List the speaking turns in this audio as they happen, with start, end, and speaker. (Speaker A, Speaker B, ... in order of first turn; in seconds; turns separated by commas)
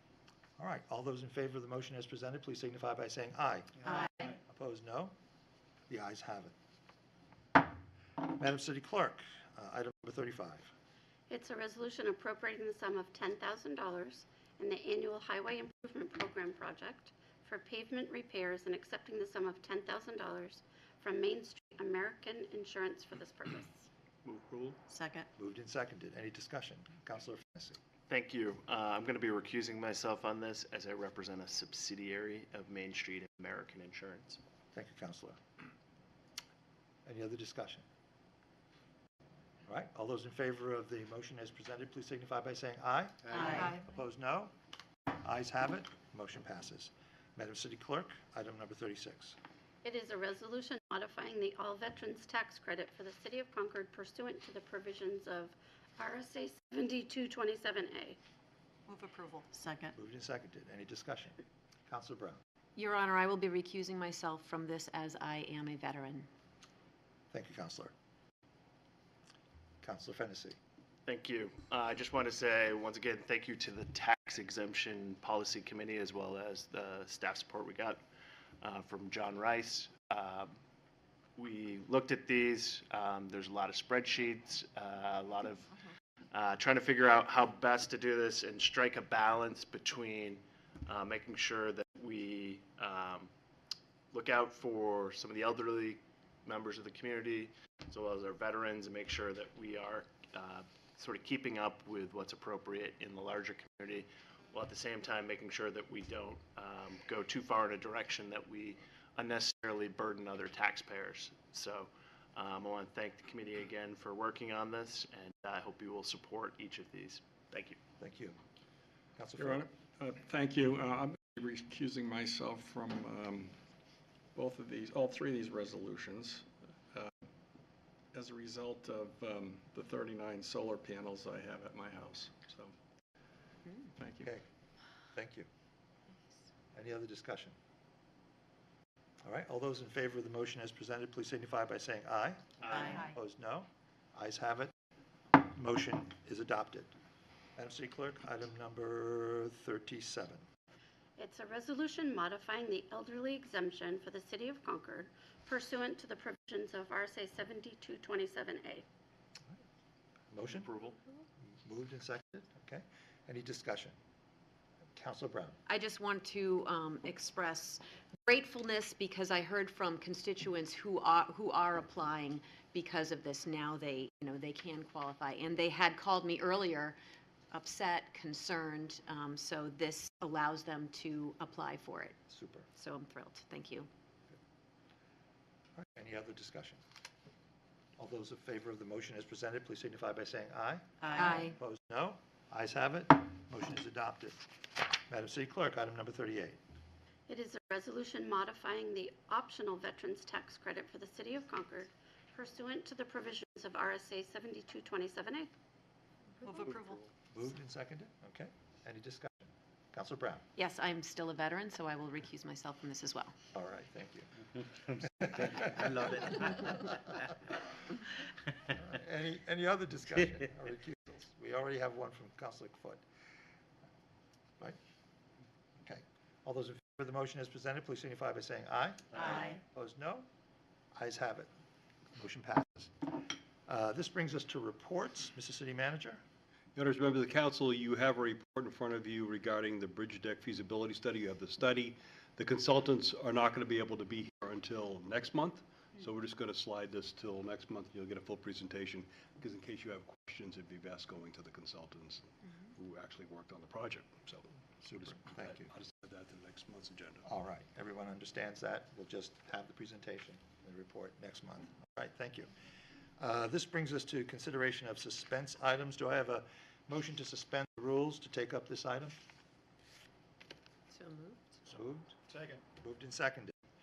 Speaker A: 0.6-5.1, Speaker A: 5.9-6.5, Speaker A: 8.2-10.7, Speaker B: 11.3-23.9, Speaker C: 24.2-24.8, Speaker D: 24.9-25.2, Speaker A: 25.4-27.8, Speaker C: 28.1-34.4, Speaker A: 34.7-35.4, Speaker A: 37.0-37.8, Speaker A: 39.7-44.5, Speaker A: 45.1-49.4, Speaker B: 49.8-58.2, Speaker D: 58.9-59.9, Speaker A: 60.0-62.4, Speaker E: 62.8-66.3, Speaker A: 67.3-67.9, Speaker A: 69.8-70.6, Speaker C: 71.0-78.0, Speaker C: 78.6-80.5, Speaker C: 81.3-85.7, Speaker C: 86.3-93.3, Speaker C: 94.1-117.8, Speaker A: 118.0-118.4, Speaker A: 119.2-119.6, Speaker F: 119.4-123.5, Speaker F: 124.3-126.4, Speaker F: 128.1-132.7, Speaker F: 134.0-134.2, Speaker A: 135.1-135.5, Speaker A: 136.7-137.6, Speaker A: 139.2-144.7, Speaker C: 142.6-143.1, Speaker A: 145.3-146.9, Speaker A: 147.6-150.4, Speaker B: 151.2-158.8, Speaker A: 160.3-160.7, Speaker C: 160.5-161.0, Speaker A: 161.4-163.9, Speaker A: 164.9-165.6, Speaker E: 165.7-177.0, Speaker E: 177.5-182.2, Speaker A: 182.3-182.7, Speaker E: 182.7-183.9, Speaker A: 185.8-186.8, Speaker A: 188.0-196.6, Speaker E: 191.2-191.6, Speaker B: 197.3-205.5, Speaker D: 206.4-207.0, Speaker A: 207.3-210.4, Speaker E: 210.6-213.3, Speaker A: 213.5-214.3, Speaker A: 214.9-217.5, Speaker A: 218.6-223.0, Speaker A: 225.8-230.3, Speaker A: 230.9-231.5, Speaker A: 232.1-236.2, Speaker G: 236.7-257.2, Speaker A: 254.8-255.7, Speaker A: 257.2-262.5, Speaker A: 263.2-269.2, Speaker E: 270.9-271.4, Speaker A: 271.6-273.5